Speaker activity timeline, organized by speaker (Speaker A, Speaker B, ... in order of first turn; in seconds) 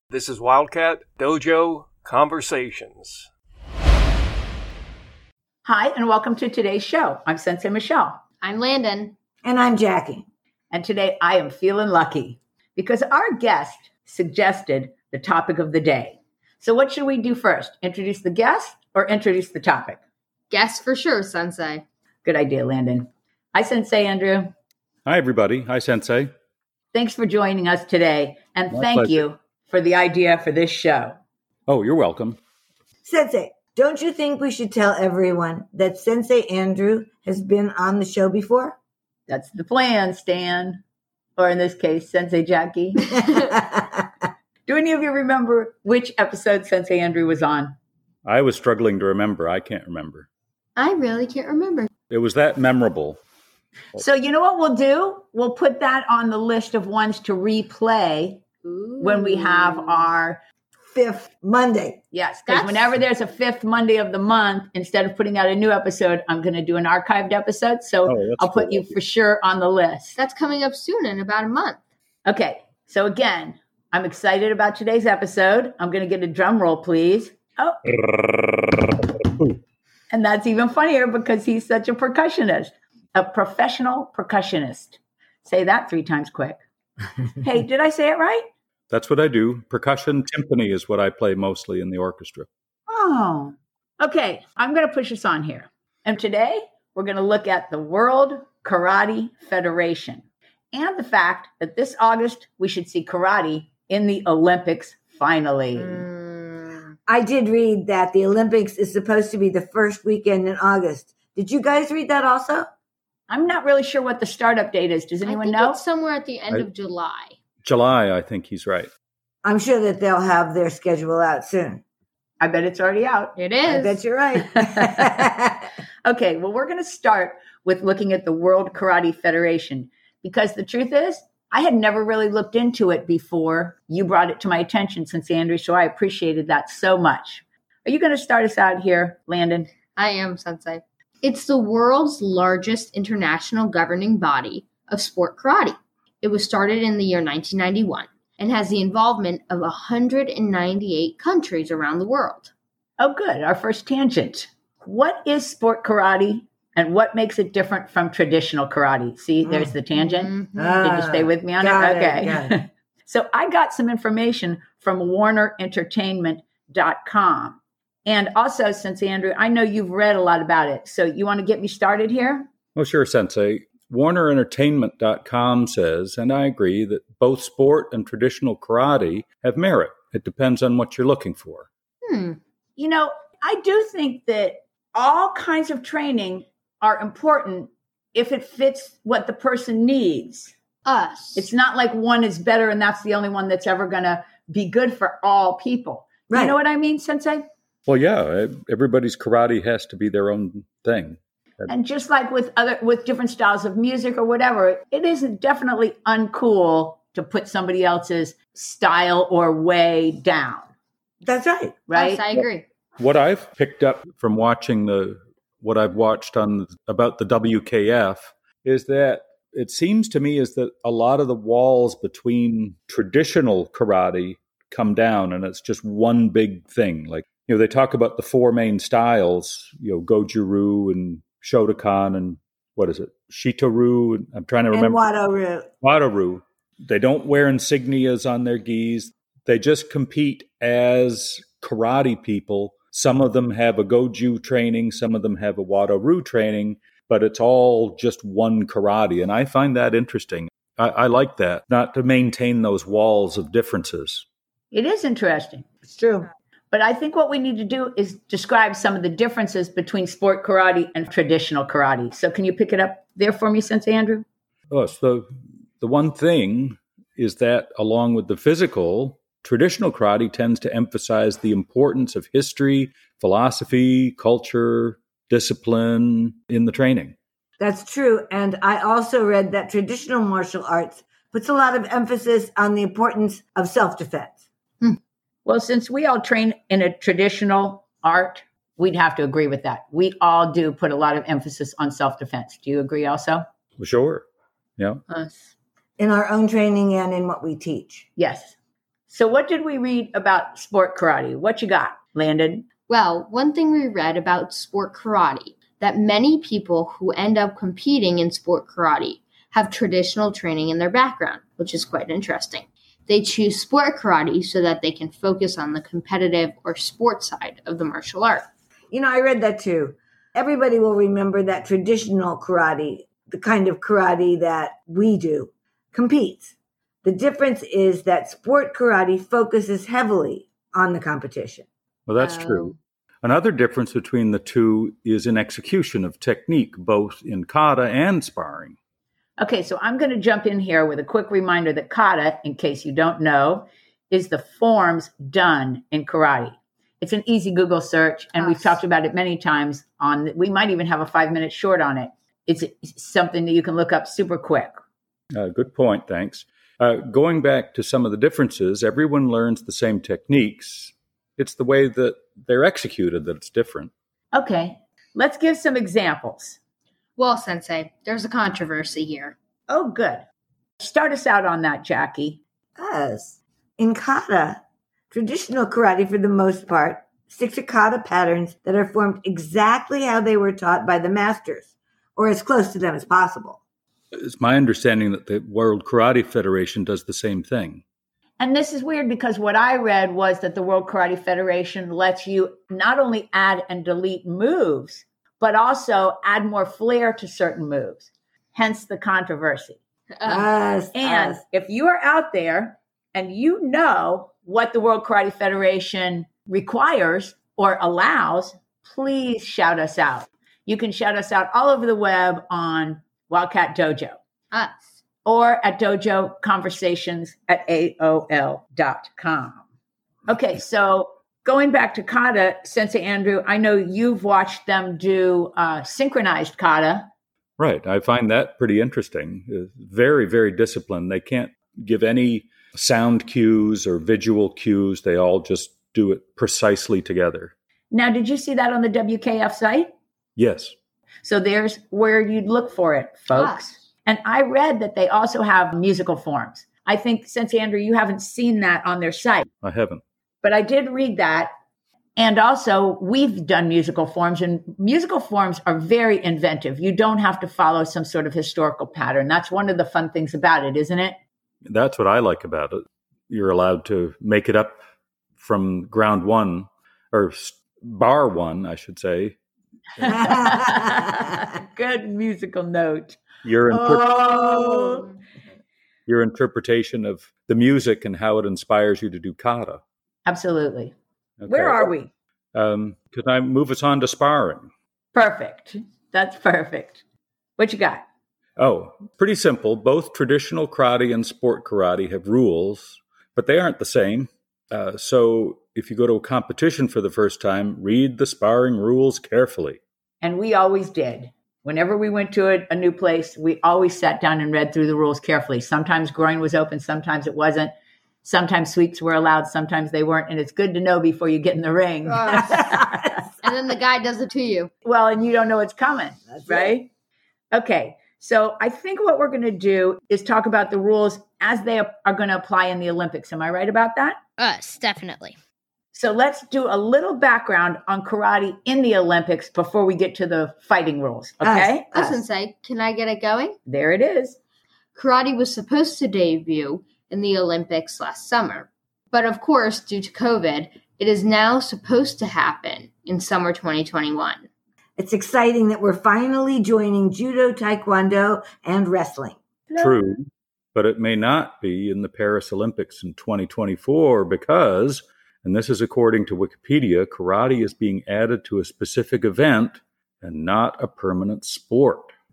Speaker A: 0.1-3.3
Speaker B: 5.7-8.2, 10.7-20.0, 22.2-24.5, 26.9-31.2, 39.3-40.8, 41.4-43.3, 44.7-47.8, 54.0-58.5, 59.0-60.4, 62.1-70.2, 72.3-77.8, 80.1-86.6, 87.4-88.5, 92.9-106.0, 113.3-115.8, 122.4-123.3, 124.4-125.2, 126.0-139.7, 153.0-172.5, 182.8-190.5, 191.3-197.4, 201.7-210.7, 211.9-212.2, 254.7-255.7, 256.7-264.2, 285.5-293.4, 298.2-298.6, 299.1-302.7, 339.4-354.8, 364.3-366.6, 369.7-370.2, 370.8-372.4, 388.4-399.8, 400.9-414.2, 415.2-419.6, 420.3-427.1, 437.9-439.9, 441.2-449.5, 450.4-451.5, 452.2-461.2, 470.0-473.2, 473.7-475.1, 480.3-480.9, 481.5-482.1, 485.1-487.0, 487.6-488.0, 500.2-507.7, 508.2-513.1, 514.9-516.9, 517.5-524.2, 525.9-531.9, 533.7-534.4
Speaker C: 8.4-9.2, 20.5-21.8, 50.8-51.9, 58.6-60.1, 62.5-63.0, 70.2-71.8, 105.8-106.9, 115.2-117.4, 123.4-124.0, 140.0-152.5, 160.0-160.8, 182.0-182.4, 190.8-191.5, 211.9-212.7, 295.1-295.5, 302.9-318.5, 332.2-332.8, 348.4-348.8, 367.2-369.4, 400.2-400.5, 414.5-414.8, 443.3-443.6, 512.1-512.8, 513.4-514.7, 524.4-525.4, 531.9-533.6, 535.0-544.5
Speaker D: 9.4-10.3, 33.0-38.8, 43.1-44.1, 60.9-62.0, 107.1-112.7, 119.4-121.8, 123.7-125.7, 159.4-159.7, 160.6-162.6, 196.3-196.6, 211.2-211.8, 234.7-235.7, 255.8-256.2, 277.6-284.4, 296.0-298.1, 318.9-326.5, 327.0-331.7, 372.8-383.6, 400.2-401.4, 470.1-471.1, 474.3-475.0, 516.4-516.7, 531.4-532.2, 545.0-549.4
Speaker E: 25.1-26.3, 28.7-29.2, 31.7-32.4, 48.2-50.3, 52.1-53.2, 68.1-69.0, 77.8-79.5, 88.9-92.5, 117.6-118.9, 172.8-181.7, 197.9-201.7, 213.0-235.0, 235.8-254.2, 264.7-277.1, 293.8-294.2, 332.1-338.8, 355.3-363.9, 384.2-387.8, 427.6-437.5, 440.4-440.7, 449.6-450.0, 461.6-464.8, 465.4-469.4, 470.0-470.6, 473.4-474.2, 476.1-479.8, 481.4-481.9, 482.5-484.7, 488.6-499.8, 549.8-562.1